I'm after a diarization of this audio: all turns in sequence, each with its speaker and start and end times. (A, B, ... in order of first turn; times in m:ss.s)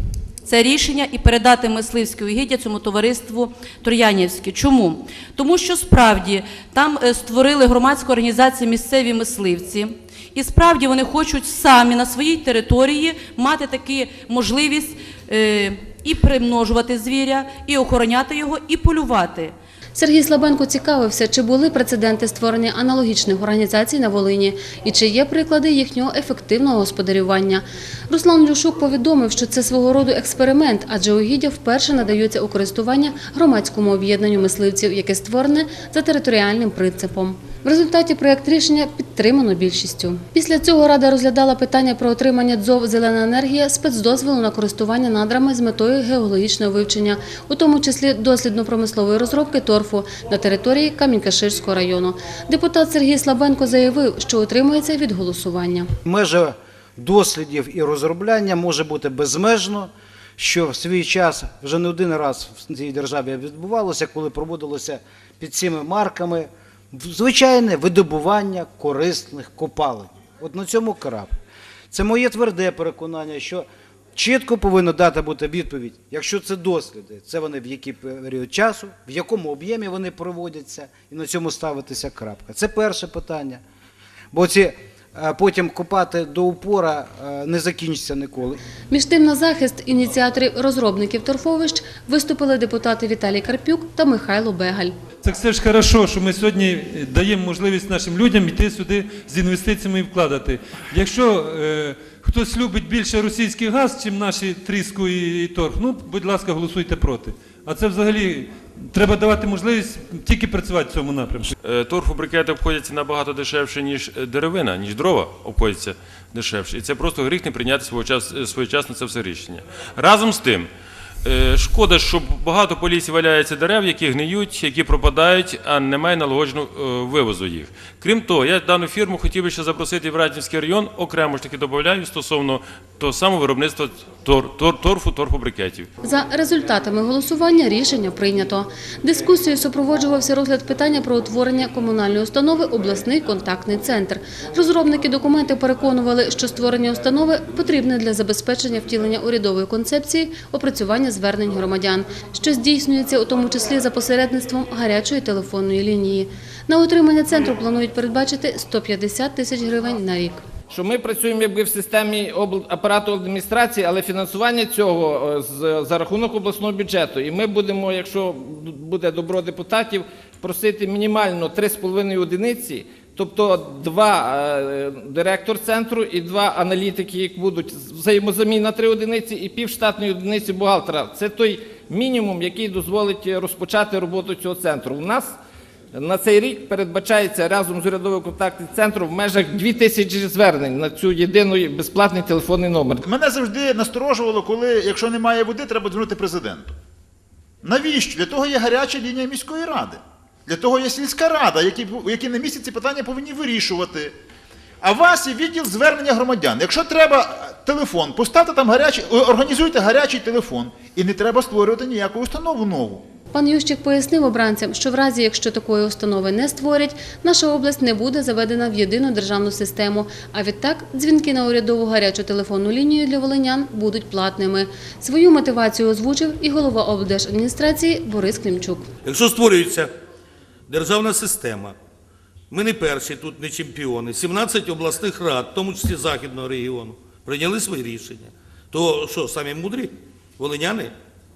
0:00.4-0:19.5 A
0:19.9-0:55.9 B
0:56.0-1:11.4 C
1:11.9-1:23.6 C
1:24.3-1:28.6 C
1:28.9-1:34.9 B
1:35.2-1:51.5 D
1:51.6-2:00.7 E
2:01.2-2:15.9 E
2:16.0-2:40.4 B
2:40.7-3:05.4 F
3:05.9-3:13.0 F
3:13.0-3:16.7 G
3:17.6-3:24.1 G
3:24.8-3:33.0 G
3:33.3-3:48.9 B
3:49.0-3:49.9 H
3:50.7-3:51.8 H
3:52.5-4:00.9 H